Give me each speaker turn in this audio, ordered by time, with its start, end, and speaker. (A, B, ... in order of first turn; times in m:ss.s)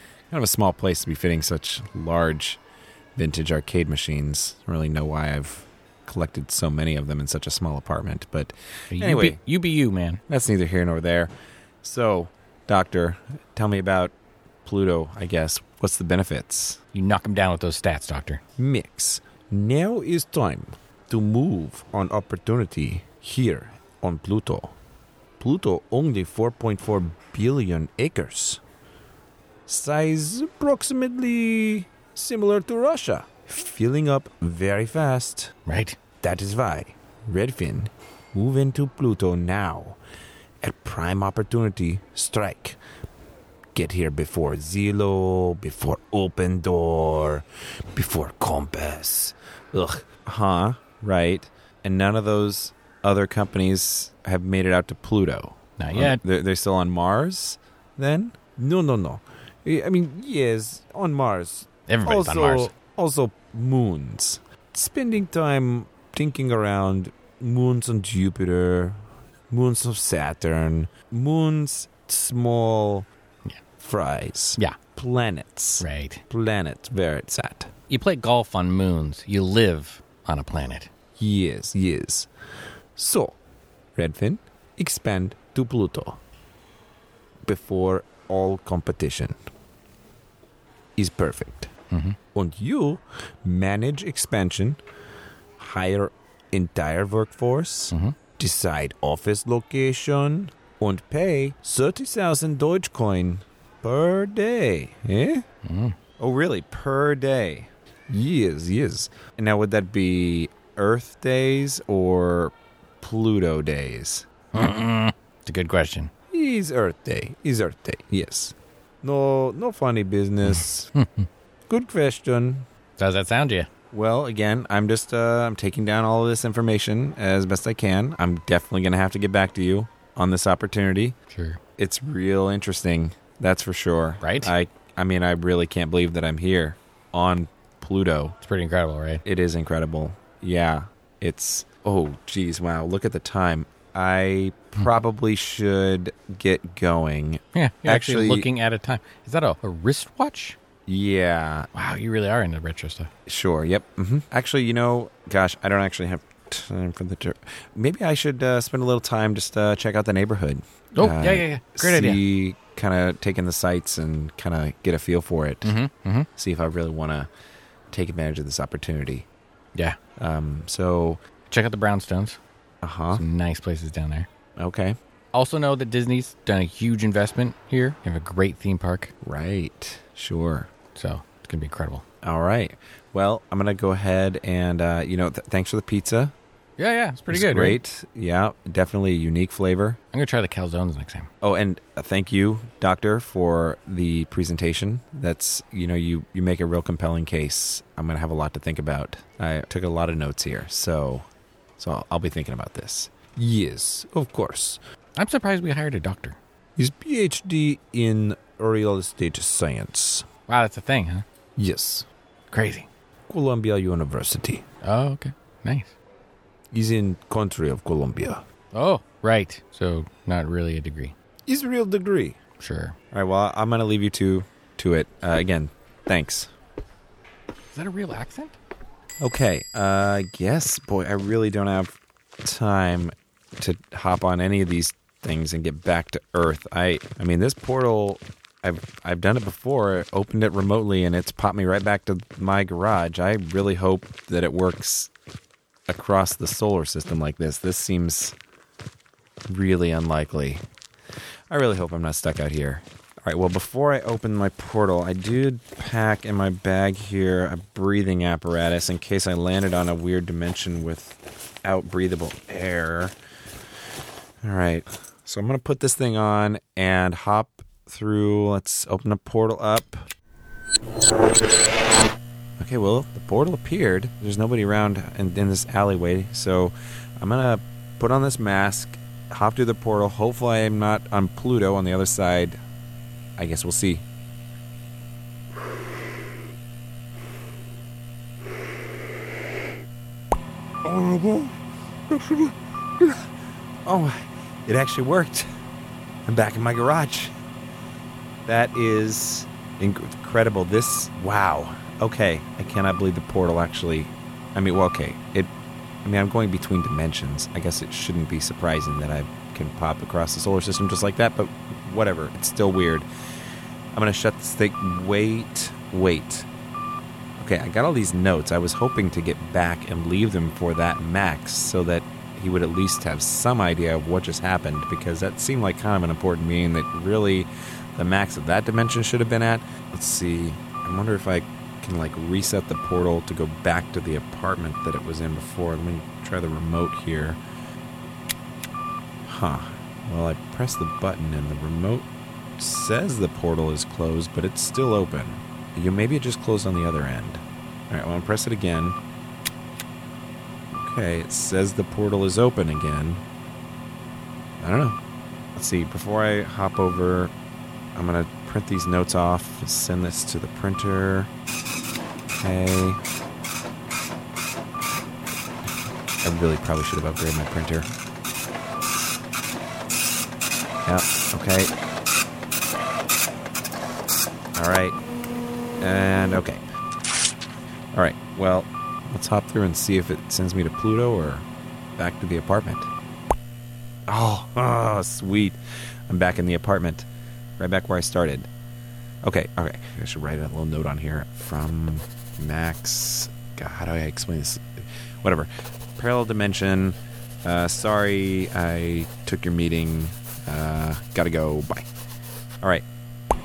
0:00.3-0:02.6 A
0:03.2-0:09.4 A
0:08.9-0:10.2 B
0:10.3-0:14.1 A
0:14.6-0:16.8 A
0:16.9-0:18.4 B
0:18.6-0:24.7 A
0:25.4-0:28.6 A
0:29.7-0:35.5 A
0:35.7-0:36.0 B
0:36.2-0:40.0 A
0:40.6-0:42.8 A
0:43.7-1:13.1 A
0:55.8-0:56.2 B
1:01.9-1:02.7 B
1:13.8-1:17.7 A
1:15.8-1:16.2 B
1:17.9-1:20.9 B
1:21.2-1:22.3 A
1:23.0-1:23.4 A
1:24.0-1:26.2 A
1:27.5-1:29.4 A
1:31.0-1:31.7 A
1:31.9-1:32.2 B
1:32.4-1:34.8 A
1:35.6-1:45.4 A
1:45.6-1:46.0 B
1:46.2-1:54.3 A
1:54.5-1:56.1 B
1:56.3-2:00.9 A
2:00.5-2:01.3 B
2:01.7-2:02.7 A
2:03.0-2:03.7 B
2:03.9-2:11.2 A
2:11.3-2:11.6 B
2:11.8-2:18.4 A
2:14.2-2:14.5 B
2:18.4-2:19.2 B
2:19.2-2:28.5 A
2:27.5-2:30.6 B
2:30.9-2:31.7 A
2:31.7-2:33.1 B
2:33.3-2:45.7 A
2:41.0-2:42.2 B
2:45.6-2:46.3 B
2:46.4-2:47.3 A
2:47.9-2:49.3 A
2:50.2-2:51.2 A
2:51.5-2:52.4 B
2:52.8-2:53.2 A
2:53.1-2:54.3 B
2:54.6-2:55.0 A
2:55.3-2:59.1 B
2:59.2-3:00.7 A
3:01.0-3:02.0 B
3:02.2-3:06.3 A
3:06.8-3:07.8 B
3:07.3-3:10.0 A
3:10.1-3:11.3 B
3:11.4-3:24.8 A
3:25.2-3:26.4 B
3:26.8-3:30.3 A
3:30.5-3:31.2 B
3:31.6-3:32.1 A
3:32.5-3:32.9 B
3:33.3-3:34.6 A
3:34.8-3:36.0 B
3:36.7-3:38.4 A
3:38.7-3:41.1 B
3:41.5-3:42.4 A
3:42.6-3:43.0 B
3:43.1-3:46.5 A
3:47.7-3:48.6 B
3:49.2-4:05.1 A
4:05.9-4:08.4 A
4:09.5-4:10.6 A
4:11.5-4:23.2 A
4:24.4-4:30.1 A
4:32.6-4:42.6 A
4:43.4-4:44.0 A
4:50.8-4:51.6 A
4:52.1-4:53.2 A
4:53.8-4:55.5 A
4:56.3-4:57.3 A
4:58.5-5:05.5 A
5:06.0-5:13.1 A
5:13.9-5:16.5 A
5:17.4-5:37.4 A
5:39.2-5:49.0 A
5:50.7-5:53.2 A
5:54.6-5:55.0 A
5:55.6-5:57.3 A
5:58.0-6:01.3 A
6:02.4-6:03.0 A
6:06.2-6:07.9 A
6:10.9-6:11.7 A
6:14.6-6:15.0 A
6:15.8-6:16.6 A
6:17.9-6:22.9 A
6:24.1-6:27.1 A
6:27.6-6:28.5 A
6:29.2-6:41.9 A